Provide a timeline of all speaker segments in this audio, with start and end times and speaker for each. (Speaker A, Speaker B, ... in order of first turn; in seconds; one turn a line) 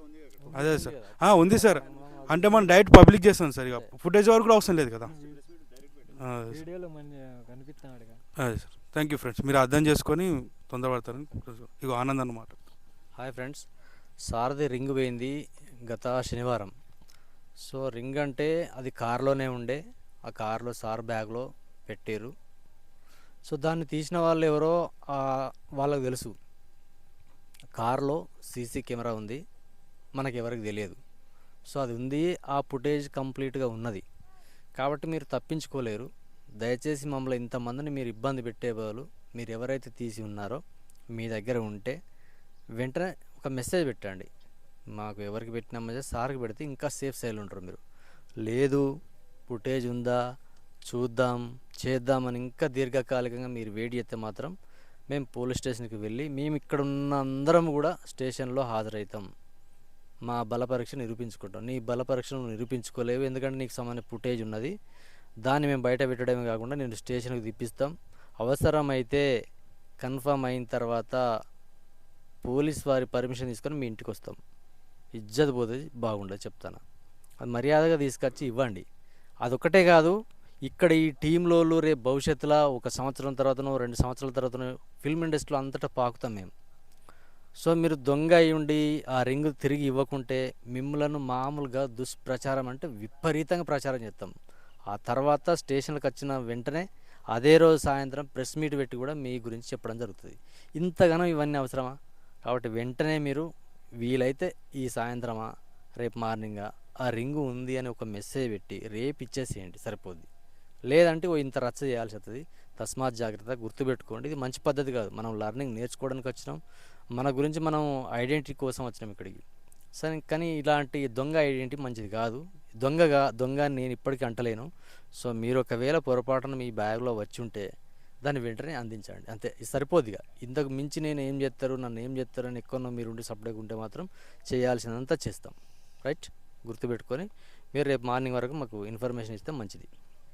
Speaker A: 0.4-0.8
Speaker B: 0.5-3.0
Speaker C: 0.5-5.1
Speaker A: 5.1-5.4
Speaker C: 6.2-6.6
Speaker A: 6.5-8.2
Speaker C: 8.4-12.6
Speaker B: 13.2-13.7
Speaker B: 14.2-16.7
Speaker B: 17.6-22.3
Speaker B: 23.5-26.4
Speaker B: 27.8-29.4
Speaker B: 30.1-31.0
Speaker B: 31.7-34.0
Speaker B: 34.8-36.1
Speaker B: 36.6-40.6
Speaker B: 41.1-42.0
Speaker B: 42.8-44.3
Speaker B: 44.9-47.8
Speaker B: 48.4-48.8
Speaker B: 49.5-50.2
Speaker B: 50.9-54.5
Speaker B: 55.1-59.2
Speaker B: 60.3-64.7
Speaker B: 65.4-69.2
Speaker B: 70.0-71.2
Speaker B: 72.4-74.4
Speaker B: 75.2-76.8
Speaker B: 77.4-78.8
Speaker B: 79.4-80.1
Speaker B: 80.7-86.5
Speaker B: 87.6-94.3
Speaker B: 94.9-103.5
Speaker B: 104.0-110.3
Speaker B: 110.9-116.6
Speaker B: 117.2-119.4
Speaker B: 120.0-127.6
Speaker B: 128.2-139.9